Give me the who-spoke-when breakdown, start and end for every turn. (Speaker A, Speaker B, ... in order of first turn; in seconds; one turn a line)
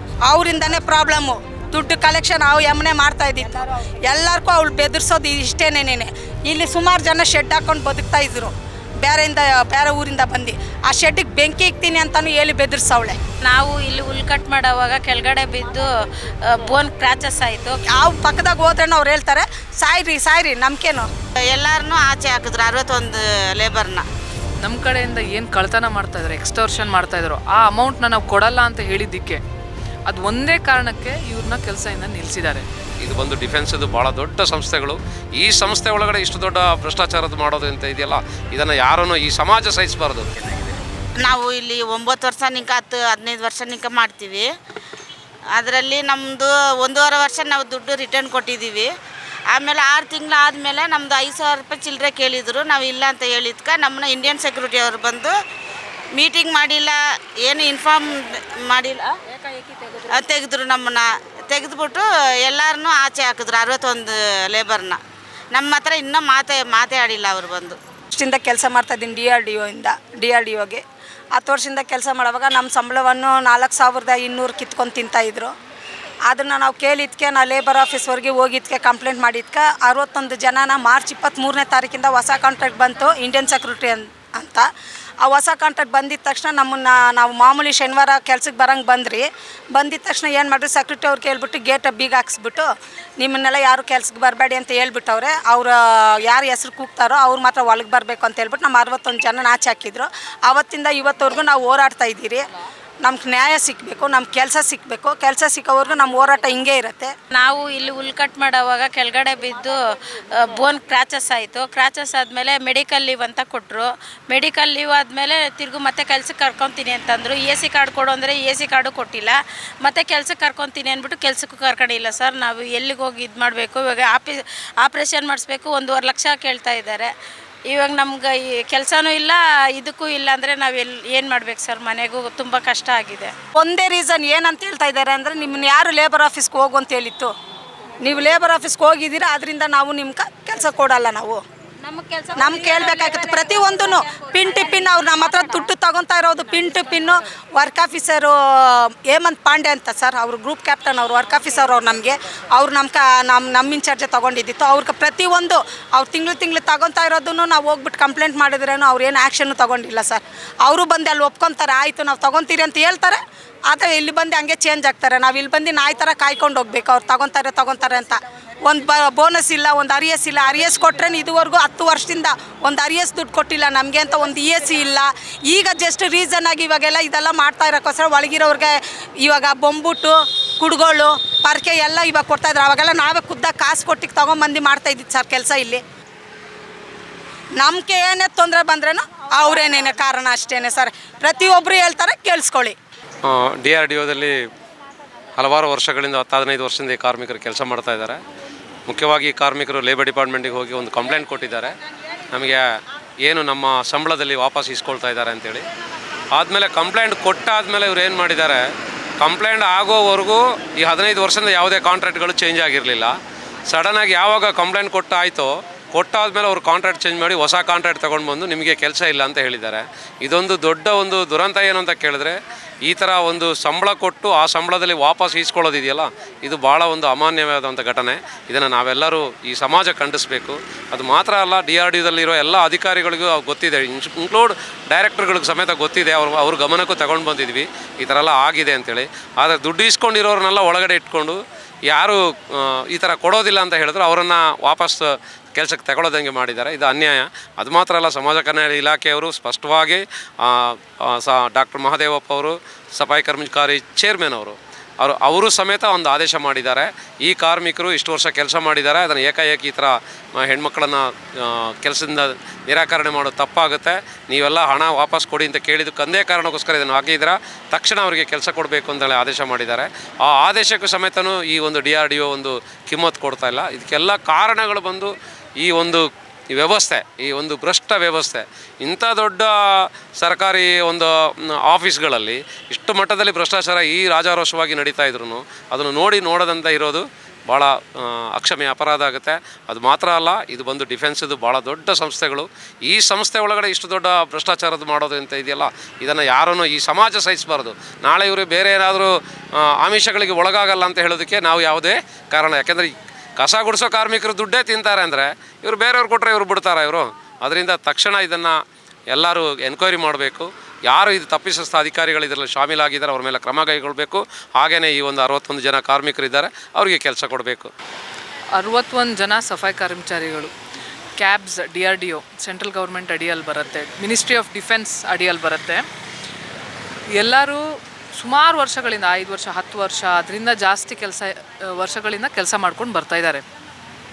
Speaker A: 0.3-8.5
Speaker A: 9.0-13.2
Speaker B: 13.4-15.9
Speaker B: 16.5-17.7
Speaker A: 17.9-21.1
Speaker C: 21.4-24.1
Speaker D: 24.6-29.4
Speaker D: 30.1-32.6
Speaker E: 33.0-40.5
Speaker C: 41.2-44.5
Speaker C: 45.6-48.9
Speaker C: 49.5-55.3
Speaker C: 56.2-59.1
Speaker C: 60.1-65.0
Speaker C: 65.5-67.8
Speaker A: 68.1-70.8
Speaker A: 71.3-75.5
Speaker A: 76.3-84.7
Speaker A: 85.2-92.7
Speaker A: 93.2-102.4
Speaker A: 103.0-107.1
Speaker B: 107.4-109.8
Speaker B: 110.4-127.1
Speaker B: 127.7-133.3
Speaker A: 133.6-137.3
Speaker A: 138.0-141.4
Speaker B: 141.9-143.5
Speaker A: 142.3-185.8
Speaker A: 187.6-192.8
Speaker E: 193.2-194.4
Speaker E: 195.4-198.2
Speaker E: 198.9-201.8
Speaker E: 202.3-202.6
Speaker E: 203.2-205.7
Speaker E: 206.3-208.6
Speaker E: 209.2-213.2
Speaker E: 213.7-308.6
Speaker E: 309.1-317.7
Speaker D: 318.6-320.5
Speaker D: 321.2-325.9
Speaker D: 327.2-327.6
Speaker D: 328.2-333.4